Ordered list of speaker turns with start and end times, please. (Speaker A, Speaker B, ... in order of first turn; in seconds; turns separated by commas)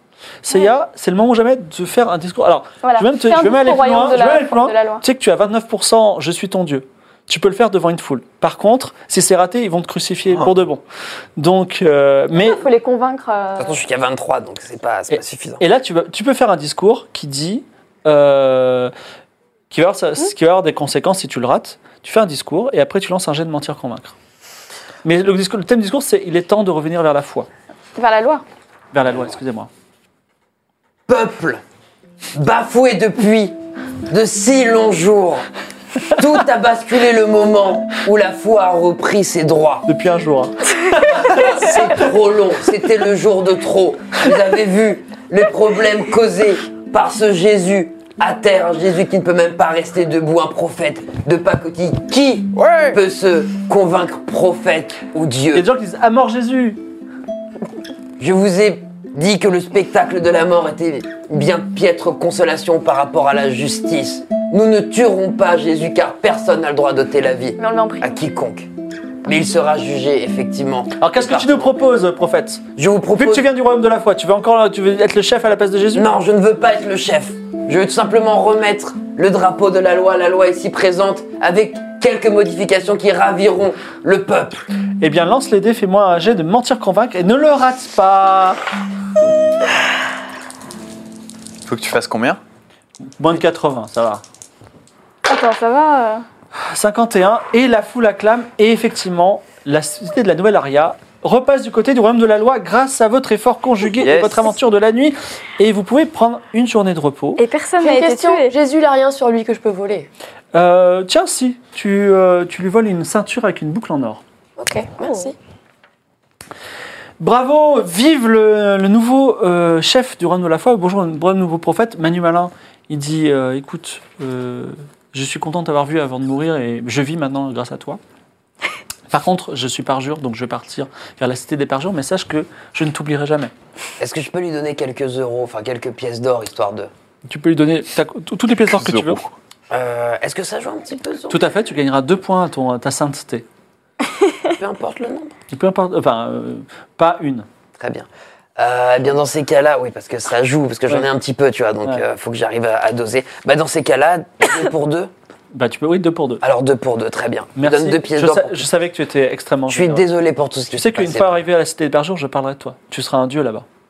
Speaker A: 0.4-10.8, Speaker B: 2.8-5.0, Speaker A: 11.4-12.6, Speaker B: 12.3-13.8, Speaker C: 13.6-15.6, Speaker A: 15.1-18.9, Speaker A: 19.7-24.1, Speaker A: 25.0-27.5, Speaker B: 27.9-28.4, Speaker A: 28.9-29.7, Speaker C: 31.1-31.6, Speaker C: 32.3-33.5, Speaker C: 34.1-35.4, Speaker C: 36.0-39.8, Speaker A: 39.9-41.5, Speaker C: 41.0-55.6, Speaker D: 52.5-53.0, Speaker A: 55.5-56.8, Speaker C: 58.2-68.7, Speaker B: 67.6-68.2, Speaker C: 69.2-71.7, Speaker A: 71.0-72.6, Speaker C: 72.8-73.5, Speaker A: 73.1-76.1, Speaker C: 75.9-84.7, Speaker A: 85.0-88.6, Speaker D: 91.7-92.4, Speaker A: 93.2-94.2, Speaker B: 95.2-96.2, Speaker A: 96.6-107.4, Speaker D: 104.0-104.5, Speaker B: 107.4-108.5, Speaker E: 107.8-110.1, Speaker A: 110.5-114.2, Speaker E: 114.6-115.3, Speaker B: 115.0-115.3, Speaker A: 117.2-128.0, Speaker A: 129.1-133.5, Speaker C: 134.0-136.9, Speaker A: 137.2-139.2, Speaker D: 138.8-139.3, Speaker C: 139.7-141.4, Speaker A: 141.3-143.4, Speaker C: 144.5-145.3, Speaker A: 145.5-147.4, Speaker C: 147.8-155.1, Speaker A: 155.5-156.4, Speaker C: 156.4-158.7, Speaker A: 157.6-160.1, Speaker C: 159.7-161.4, Speaker A: 160.7-163.7